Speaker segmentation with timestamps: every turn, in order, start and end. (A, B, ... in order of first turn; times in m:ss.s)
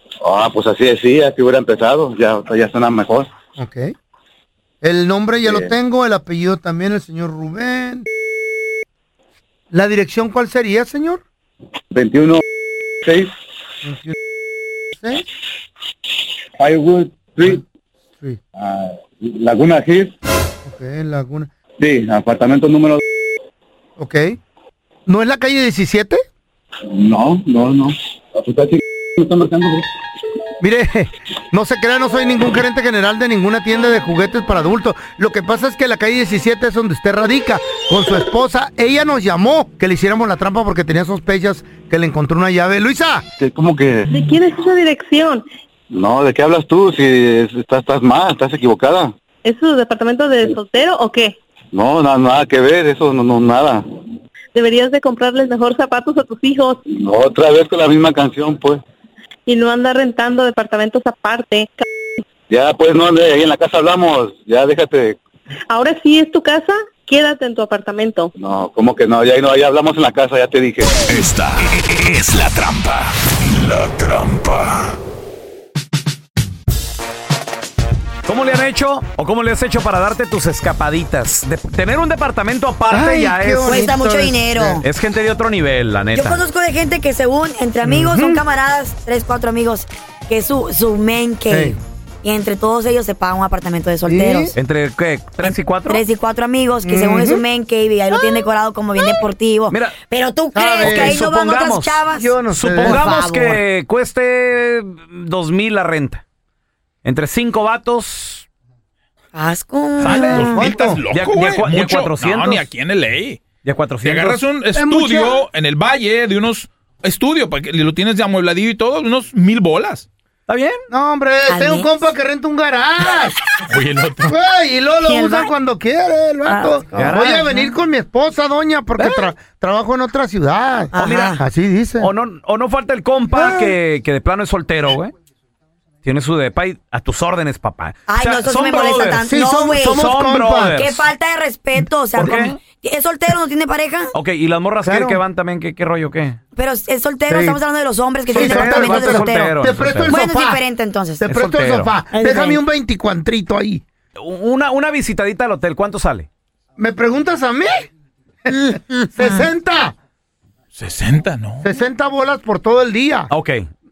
0:00.2-0:03.3 A
0:03.6-0:03.9 B
0:04.8-0:08.0 B
0:05.4-0:05.7 A
0:09.7-0:11.2 B
0:11.9-0:12.4 A
0:13.0-0:13.3 A
0:13.8-0:14.1 B
0:16.6-0:17.6 A
0:18.6-0:20.1 A
0:20.6-0:21.5 B
0:21.8-0:23.0 A
0:24.0-0:24.4 B
0:25.1-0:26.2 B
0:26.9-0:29.9 A
0:30.6-0:43.2 B
0:43.4-0:44.1 A
0:44.1-0:45.5 C
0:45.9-0:49.1 A
0:49.4-0:51.4 C
0:51.7-0:53.8 A
0:54.5-0:56.8 C
0:56.9-0:58.8 A
0:59.4-1:01.8 C
1:02.5-1:05.2 A
1:05.7-1:08.3 C
1:08.4-1:11.0 A
1:11.1-1:14.8 D
1:18.2-1:23.8 E
1:22.9-1:24.8 B
1:23.6-1:24.8 F
1:24.8-1:26.4 E
1:26.1-1:34.6 F
1:27.8-1:28.4 B
1:31.5-1:31.8 B
1:34.0-1:34.5 B
1:34.6-1:36.0 E
1:35.4-1:43.6 F
1:36.8-1:37.4 B
1:38.1-1:38.4 B
1:39.7-1:39.9 E
1:40.5-1:41.2 B
1:40.8-1:46.2 E
1:42.1-1:43.0 B
1:47.0-1:48.4 E
1:49.3-1:50.7 F
1:50.0-1:53.4 G
1:50.4-1:51.0 B
1:51.1-1:52.7 E
1:53.6-1:54.4 E
1:54.0-2:00.0 G
1:54.7-1:55.4 B
2:00.5-2:00.8 E
2:00.9-2:03.4 B
2:01.5-2:02.1 F
2:03.7-2:04.3 G
2:04.2-2:12.1 B
2:05.0-2:05.5 F
2:06.5-2:07.8 F
2:06.9-2:07.4 E
2:09.0-2:09.3 E
2:10.9-2:11.4 F
2:11.0-2:11.4 E
2:12.0-2:15.1 E
2:13.3-2:13.8 B
2:16.0-2:19.2 E
2:18.1-2:20.0 F
2:19.2-2:20.8 B
2:19.8-2:21.1 E
2:20.7-2:24.1 F
2:21.8-2:22.5 B
2:22.1-2:22.6 E
2:24.1-2:26.4 E
2:24.8-2:25.2 B
2:26.6-2:31.3 F
2:27.3-2:27.6 B
2:28.3-2:30.2 E
2:28.3-2:30.6 B
2:31.2-2:33.8 B
2:31.2-2:31.9 E
2:32.1-2:32.6 F
2:34.2-2:36.3 E
2:36.8-2:37.9 B
2:38.5-2:39.5 F
2:38.5-2:39.9 B
2:40.8-2:41.6 G
2:41.6-2:43.3 B
2:43.3-2:43.6 E